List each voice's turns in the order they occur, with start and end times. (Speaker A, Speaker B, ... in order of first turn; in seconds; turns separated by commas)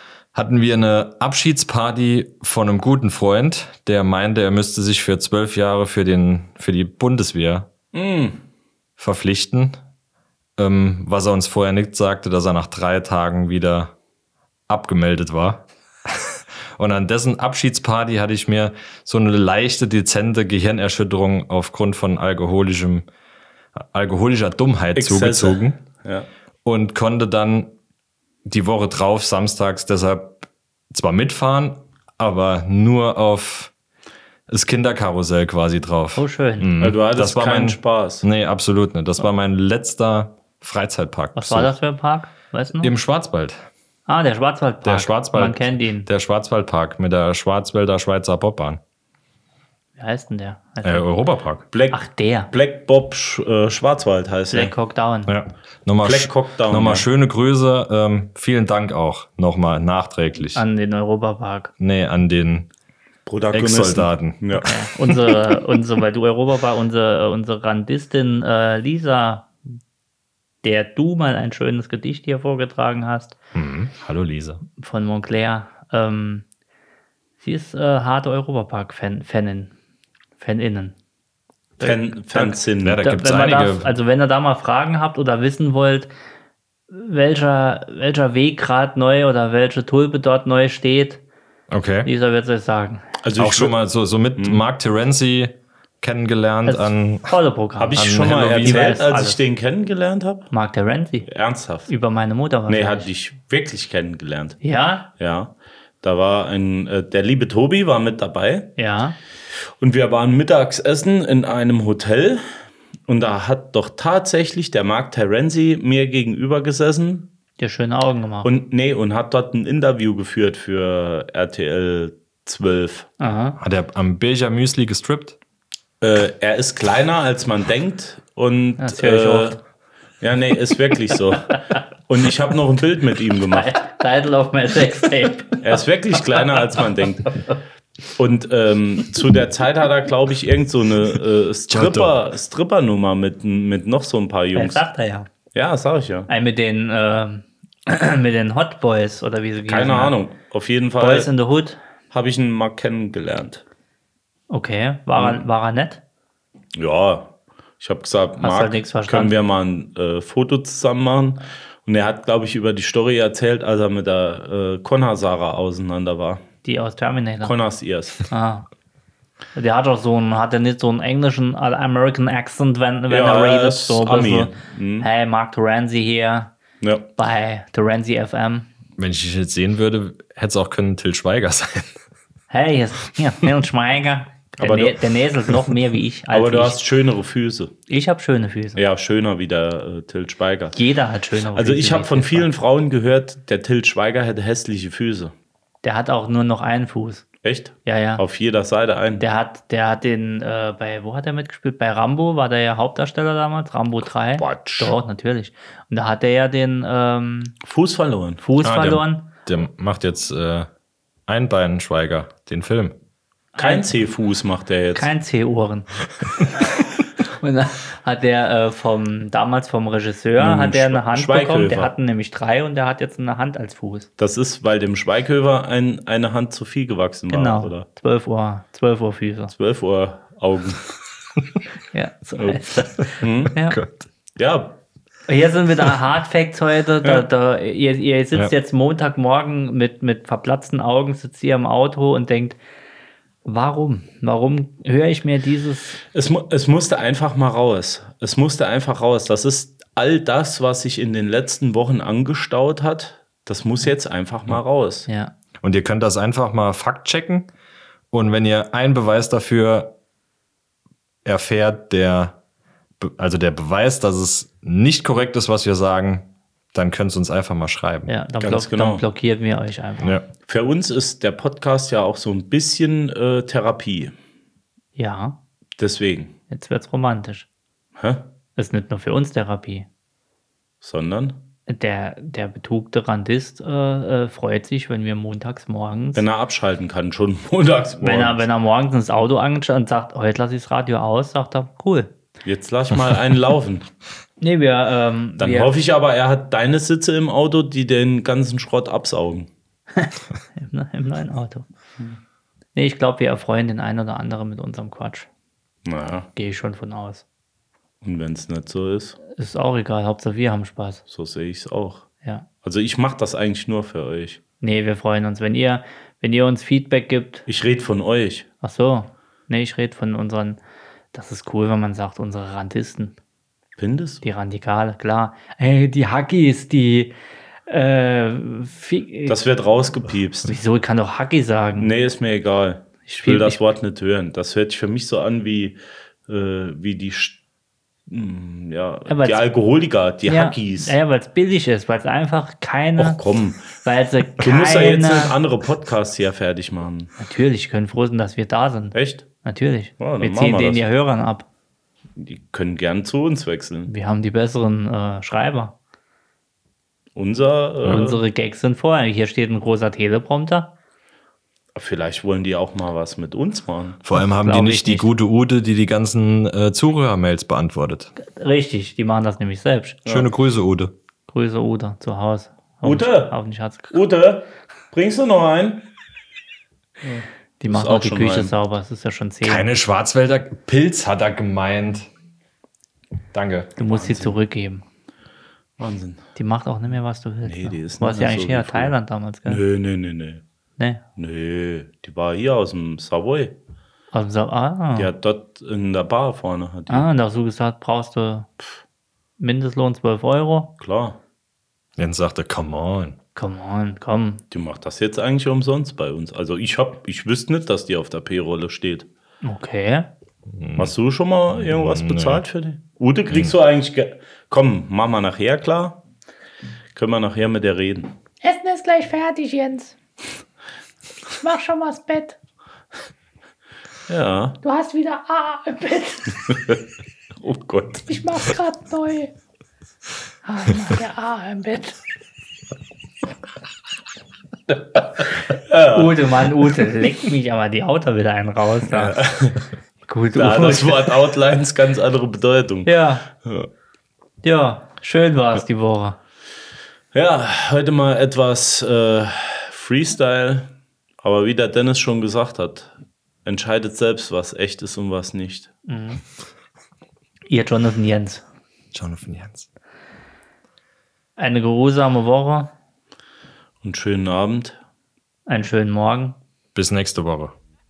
Speaker A: 0.3-7.7, Speaker B: 7.9-8.4, Speaker A: 9.0-9.8, Speaker A: 10.6-13.9, Speaker A: 14.7-23.1, Speaker A: 23.8-25.8, Speaker B: 24.9-26.3, Speaker A: 26.6-27.7, Speaker A: 28.4-33.7, Speaker A: 34.5-41.7, Speaker C: 36.1-36.7, Speaker B: 36.8-38.2, Speaker C: 41.3-42.9, Speaker A: 42.8-43.6, Speaker C: 44.1-46.1, Speaker A: 44.8-48.8, Speaker C: 50.0-51.1, Speaker A: 50.8-51.6, Speaker B: 51.7-54.7, Speaker C: 51.9-52.5, Speaker C: 54.5-55.3, Speaker A: 55.2-60.6, Speaker B: 56.0-57.1, Speaker C: 60.5-61.7, Speaker A: 61.8-62.7, Speaker B: 63.2-64.7, Speaker A: 63.5-65.3, Speaker C: 64.6-69.5, Speaker C: 70.6-73.3, Speaker A: 73.5-74.6, Speaker C: 74.8-76.4, Speaker C: 77.4-79.7, Speaker C: 80.4-80.9, Speaker C: 81.8-86.1, Speaker B: 81.8-83.0, Speaker A: 82.8-83.9, Speaker C: 86.9-91.2, Speaker A: 91.7-92.1, Speaker C: 92.0-93.1, Speaker B: 93.2-93.7, Speaker A: 93.4-97.3, Speaker B: 94.3-94.6, Speaker C: 96.7-99.4, Speaker B: 97.8-100.5, Speaker A: 98.0-99.0, Speaker C: 100.5-101.3, Speaker B: 101.2-101.9, Speaker C: 101.9-103.1, Speaker B: 102.7-104.6, Speaker C: 104.6-105.1, Speaker B: 105.2-108.7, Speaker C: 108.8-109.2, Speaker B: 109.8-112.4, Speaker B: 113.1-117.2, Speaker C: 117.6-118.5, Speaker B: 118.4-123.1, Speaker C: 123.2-123.6, Speaker A: 123.6-125.4, Speaker B: 126.0-129.6, Speaker C: 128.8-129.6, Speaker B: 130.2-133.8, Speaker C: 133.5-135.6, Speaker B: 135.6-137.4, Speaker B: 138.2-144.8, Speaker A: 141.7-142.1, Speaker C: 144.5-145.3, Speaker B: 145.5-146.3, Speaker C: 146.3-150.2, Speaker B: 149.7-151.3, Speaker C: 151.0-151.8, Speaker B: 152.1-153.6, Speaker C: 154.5-156.0, Speaker B: 156.7-166.4, Speaker C: 158.4-159.3, Speaker C: 166.6-167.5, Speaker B: 167.4-168.3, Speaker C: 168.3-168.7, Speaker C: 169.5-176.5, Speaker B: 173.1-175.1, Speaker B: 176.8-177.1, Speaker C: 177.2-178.7, Speaker A: 179.0-182.0, Speaker C: 182.5-186.8, Speaker B: 184.6-185.0, Speaker B: 186.3-187.7, Speaker C: 187.9-188.8, Speaker B: 188.8-190.8, Speaker C: 190.7-192.5, Speaker B: 191.5-195.3, Speaker C: 195.8-197.2, Speaker B: 197.4-199.2, Speaker C: 197.8-198.2, Speaker C: 199.2-207.6, Speaker B: 204.4-204.9, Speaker B: 207.6-208.4, Speaker C: 208.4-209.3, Speaker A: 208.6-210.7, Speaker A: 211.3-212.9, Speaker C: 213.5-213.9, Speaker B: 213.6-215.1, Speaker C: 214.9-215.9, Speaker C: 217.3-224.1, Speaker B: 220.4-221.9, Speaker B: 224.2-227.8, Speaker C: 227.3-229.5, Speaker B: 229.5-230.9, Speaker C: 231.9-233.8, Speaker B: 232.4-232.6, Speaker B: 233.2-233.6, Speaker A: 233.7-234.1, Speaker B: 234.3-234.8, Speaker C: 235.3-242.6, Speaker C: 243.4-246.0, Speaker B: 246.1-255.1, Speaker C: 255.1-255.3, Speaker A: 255.6-257.5, Speaker A: 258.1-259.9, Speaker A: 261.2-262.4, Speaker A: 263.0-268.1, Speaker C: 268.1-270.2, Speaker B: 268.4-269.0, Speaker B: 270.4-274.1, Speaker C: 274.9-275.4, Speaker B: 275.8-276.3, Speaker C: 276.5-277.5, Speaker B: 278.0-278.2, Speaker C: 278.6-279.9, Speaker B: 280.8-281.4, Speaker C: 281.7-286.2, Speaker B: 286.1-288.4, Speaker C: 288.0-292.1, Speaker B: 292.4-293.9, Speaker C: 294.4-295.8, Speaker B: 295.4-299.5, Speaker C: 299.9-301.6, Speaker C: 302.8-305.3, Speaker B: 305.8-306.3, Speaker C: 306.3-307.2, Speaker B: 308.0-309.2, Speaker C: 309.3-311.0, Speaker B: 311.1-312.1, Speaker B: 312.6-314.4, Speaker C: 314.6-317.4, Speaker B: 317.5-318.4, Speaker C: 318.6-320.6, Speaker C: 321.1-323.1, Speaker B: 323.8-324.2, Speaker C: 324.2-327.1, Speaker C: 327.7-329.4, Speaker B: 329.3-330.6, Speaker C: 330.4-331.9, Speaker B: 331.8-337.4, Speaker C: 333.1-333.6, Speaker B: 338.1-340.9, Speaker C: 339.1-339.4, Speaker C: 340.2-343.2, Speaker B: 343.0-343.8, Speaker C: 343.8-345.3, Speaker B: 344.3-347.1, Speaker C: 347.2-351.5, Speaker B: 348.9-349.2, Speaker B: 350.0-350.8, Speaker B: 352.1-353.9, Speaker C: 353.9-355.7, Speaker B: 357.1-358.2, Speaker C: 357.9-360.7, Speaker B: 361.7-364.0, Speaker A: 364.0-368.1, Speaker C: 364.1-365.1, Speaker C: 368.2-370.0, Speaker A: 370.1-370.9, Speaker C: 371.3-373.9, Speaker B: 372.8-373.3, Speaker B: 373.9-375.8, Speaker B: 377.0-378.5, Speaker C: 377.6-379.7, Speaker A: 379.4-382.1, Speaker A: 383.3-383.7, Speaker C: 383.8-384.8, Speaker B: 383.9-384.4, Speaker B: 385.8-386.2, Speaker C: 386.4-389.6, Speaker B: 387.4-390.4, Speaker B: 391.2-393.5, Speaker C: 394.1-395.1, Speaker B: 394.9-397.1, Speaker C: 396.9-398.5, Speaker C: 399.4-400.7, Speaker B: 400.8-401.2, Speaker A: 402.0-403.2, Speaker C: 403.3-404.4, Speaker B: 404.5-409.1, Speaker C: 409.4-410.1, Speaker A: 410.5-410.9, Speaker B: 410.8-416.0, Speaker A: 411.5-412.4, Speaker A: 413.3-413.5, Speaker B: 416.9-418.1, Speaker D: 418.4-419.9, Speaker D: 421.3-422.4, Speaker B: 424.1-424.6, Speaker D: 424.6-426.4, Speaker B: 426.5-426.8, Speaker B: 427.4-428.1, Speaker D: 428.1-429.3, Speaker D: 430.4-432.0, Speaker B: 435.5-436.4, Speaker C: 435.7-439.1, Speaker B: 438.9-439.6, Speaker C: 440.1-441.1, Speaker B: 440.3-443.7, Speaker C: 442.8-443.3, Speaker C: 444.4-446.2, Speaker B: 447.1-450.7, Speaker B: 451.2-452.9, Speaker B: 453.4-455.7, Speaker C: 455.9-456.2, Speaker C: 457.5-458.4, Speaker A: 458.9-459.7, Speaker C: 461.4-462.7, Speaker B: 463.8-464.8, Speaker C: 465.5-466.4, Speaker A: 466.7-467.6